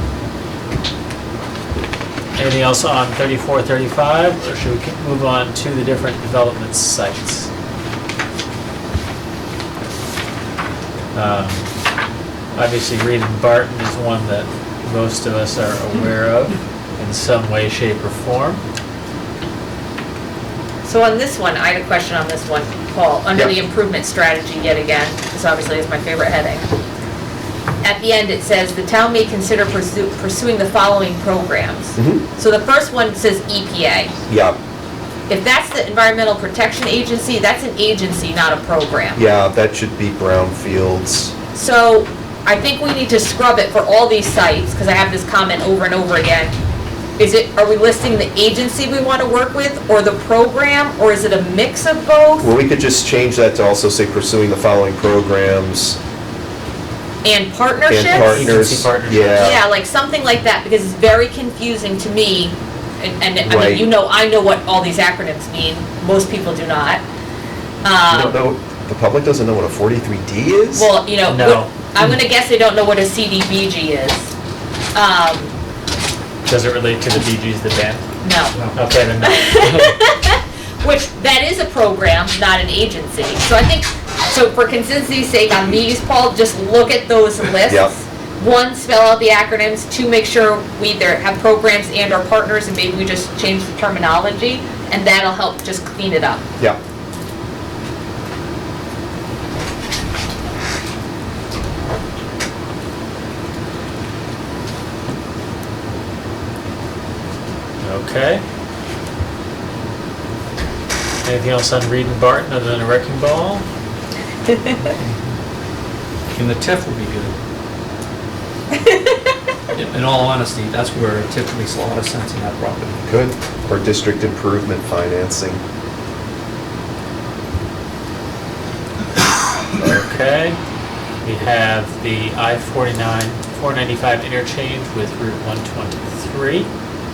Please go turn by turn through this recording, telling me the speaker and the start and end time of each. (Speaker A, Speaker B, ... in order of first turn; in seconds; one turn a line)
Speaker A: 2.4-7.5
Speaker A: 11.1-11.7
Speaker A: 12.5-18.6
Speaker B: 20.8-26.7
Speaker B: 27.8-34.1
Speaker C: 31.9-32.2
Speaker C: 34.3-34.6
Speaker B: 35.3-39.2
Speaker C: 39.1-41.3
Speaker B: 41.5-46.5
Speaker B: 47.2-52.5
Speaker C: 52.4-56.0
Speaker B: 57.2-58.5
Speaker C: 57.9-59.6
Speaker A: 58.1-59.6
Speaker B: 59.4-67.0
Speaker C: 63.4-63.9
Speaker B: 67.8-68.4
Speaker C: 68.1-70.9
Speaker B: 70.7-74.3
Speaker A: 71.2-71.7
Speaker B: 74.9-75.5
Speaker A: 76.5-78.0
Speaker B: 78.2-78.6
Speaker A: 78.7-79.9
Speaker B: 79.2-96.4
Speaker C: 87.7-87.9
Speaker A: 107.8-108.4
Speaker A: 111.2-113.6
Speaker B: 114.5-114.8
Speaker D: 116.3-117.3
Speaker B: 118.7-119.2
Speaker D: 119.7-123.0
Speaker C: 123.1-125.6
Speaker A: 129.8-130.6
Speaker A: 131.2-136.7